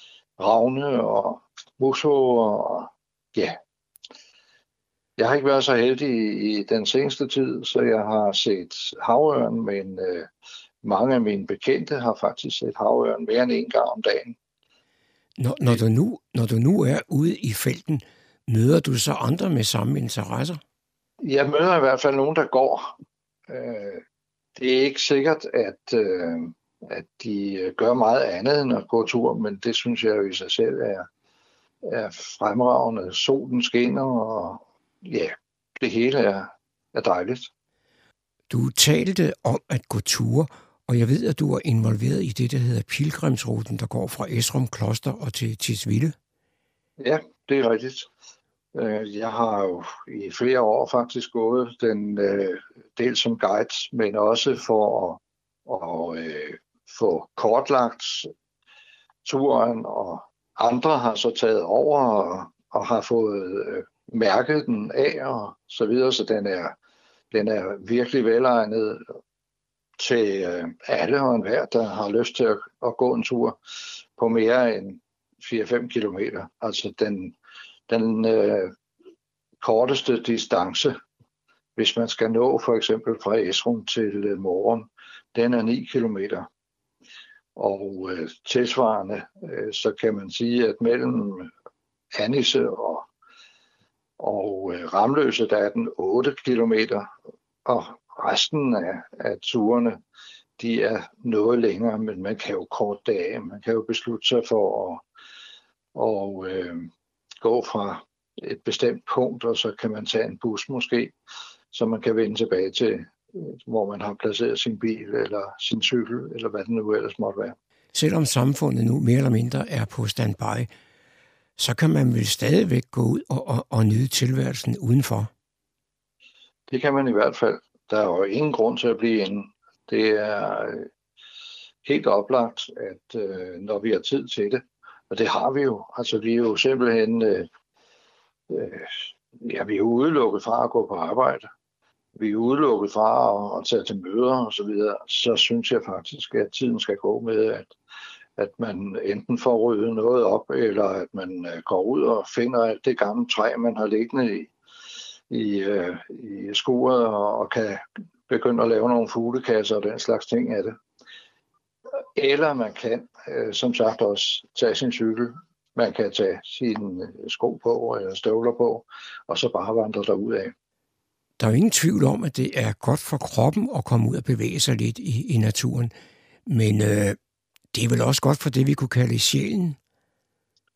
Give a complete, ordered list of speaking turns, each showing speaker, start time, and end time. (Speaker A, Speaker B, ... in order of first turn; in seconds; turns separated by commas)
Speaker A: 0.4-3.6, Speaker A: 5.2-10.3, Speaker A: 10.8-14.4, Speaker B: 15.4-20.6, Speaker A: 21.2-22.9, Speaker A: 23.5-24.0, Speaker A: 24.6-31.1, Speaker A: 31.9-37.5, Speaker B: 38.5-46.1, Speaker A: 47.0-48.1, Speaker A: 48.8-58.3, Speaker A: 59.2-66.8, Speaker A: 67.3-69.1, Speaker A: 70.0-73.6, Speaker A: 74.2-77.3, Speaker A: 77.9-78.7, Speaker A: 79.6-81.0, Speaker A: 81.8-86.5, Speaker A: 87.6-91.5, Speaker A: 92.2-93.1, Speaker A: 94.2-97.1, Speaker A: 97.7-100.0, Speaker A: 100.6-105.0, Speaker A: 106.0-111.1, Speaker A: 111.7-117.6, Speaker B: 117.9-120.7, Speaker B: 121.6-125.3, Speaker A: 126.7-130.9, Speaker A: 131.8-137.5, Speaker A: 138.5-141.5, Speaker A: 142.2-147.7, Speaker A: 148.4-154.5, Speaker A: 155.3-160.8, Speaker A: 162.2-170.5, Speaker B: 171.4-175.9, Speaker B: 176.5-177.2, Speaker B: 177.7-179.8